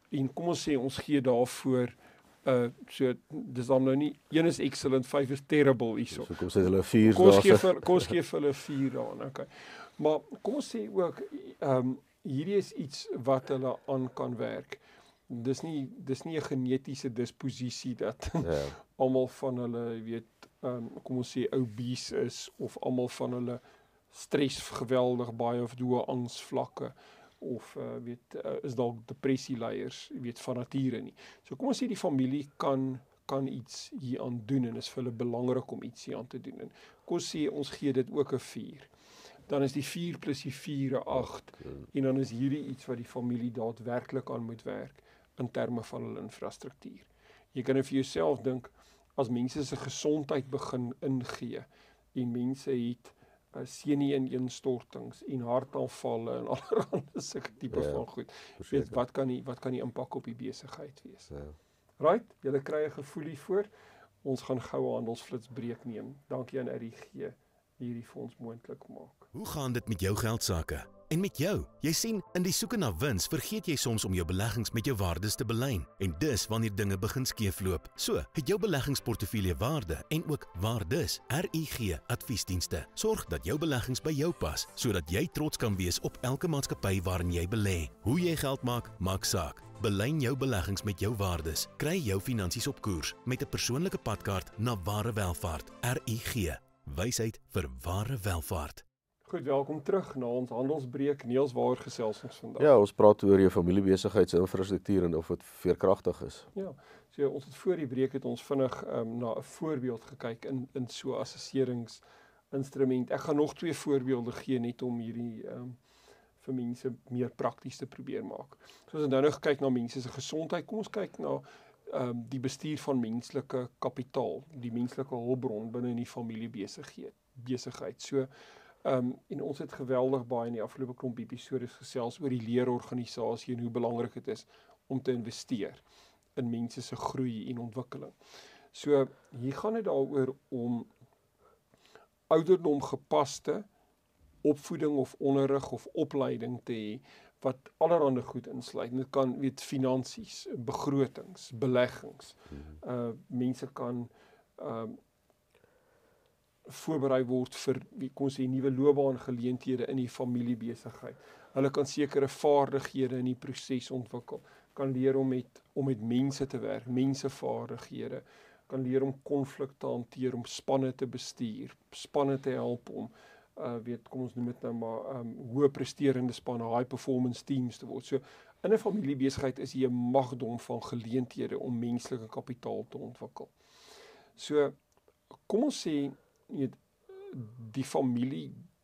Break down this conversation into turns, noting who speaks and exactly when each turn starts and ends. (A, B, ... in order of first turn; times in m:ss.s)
0:00.1-0:38.9 A
0:06.1-0:08.1 B
0:18.4-0:18.8 B
0:39.5-1:01.3 A
0:41.2-0:41.8 B
0:57.7-0:58.0 B
0:58.6-0:59.0 B
1:01.3-1:01.6 B
1:02.0-1:03.7 A
1:04.2-1:09.3 A
1:09.3-1:38.8 C
1:39.2-1:42.7 A
1:42.6-1:46.5 B
1:46.5-1:55.8 A
1:56.4-2:08.3 A
2:08.8-2:15.8 A
2:16.4-2:18.1 A
2:18.7-2:20.9 A
2:22.3-2:23.7 A
2:24.4-2:35.0 A
2:36.6-3:03.5 A
3:04.4-3:04.7 A
3:05.5-3:08.6 A